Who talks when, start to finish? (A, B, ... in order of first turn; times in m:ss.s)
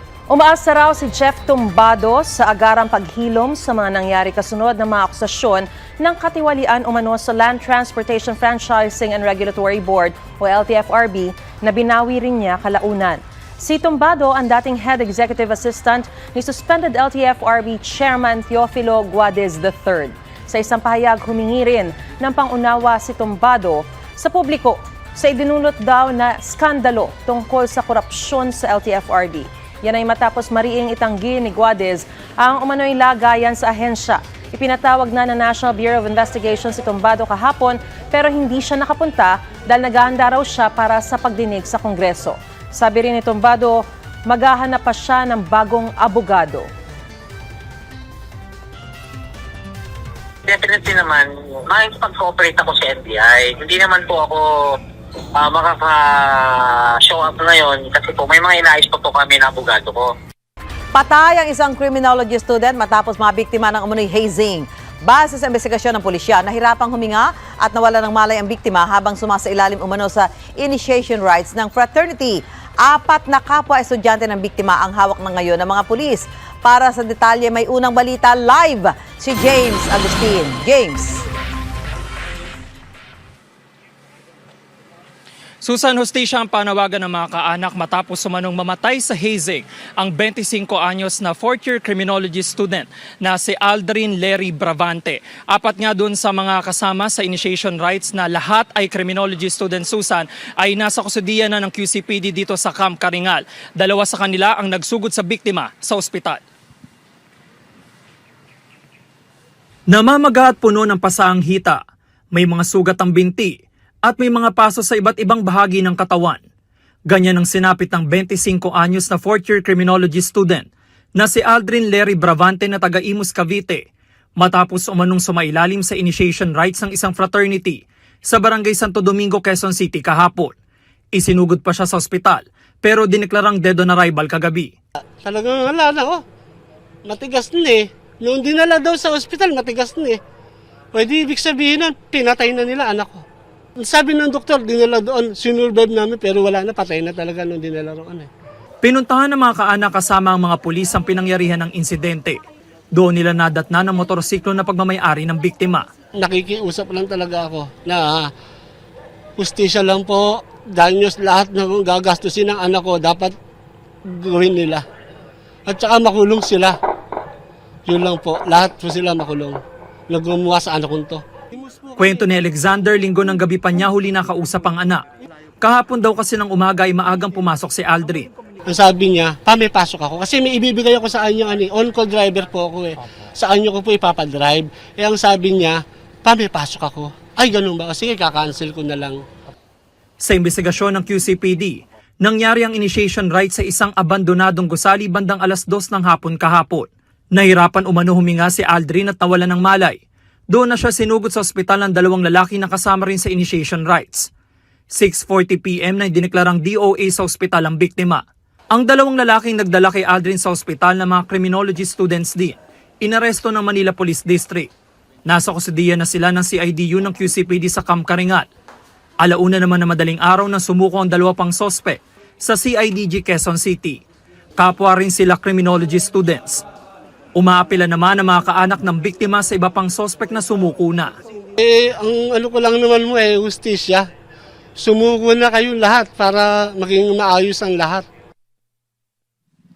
0:00.3-0:46.7 A
0:50.4-0:54.4 B
0:55.4-1:00.1 B
1:00.9-1:21.2 C
1:25.6-1:46.4 D
1:49.9-1:51.8 D
1:52.3-1:56.4 D
1:57.1-2:03.8 D
2:04.4-2:10.5 D
2:11.1-2:14.7 D
2:15.2-2:16.2 E
2:17.1-2:20.2 E
2:20.9-2:23.2 E
2:23.8-2:28.3 E
2:28.8-2:32.4 D
2:32.9-2:35.8 D
2:36.2-2:38.3 E
2:39.4-2:43.3 E
2:44.1-2:44.8 E
2:45.7-2:46.8 E
2:47.9-2:49.6 E
2:50.1-2:52.0 E
2:52.0-2:55.0 D
2:55.6-2:58.3 D
2:58.7-3:09.2 E
3:10.2-3:20.0 D
3:20.5-3:24.3 D
3:24.9-3:28.2 D
3:28.7-3:34.7 D
3:35.2-3:38.4 D
3:39.2-3:44.0 D
3:44.6-3:46.6 D
3:47.4-3:51.1 D
3:51.6-3:54.1 E
3:54.8-3:58.0 E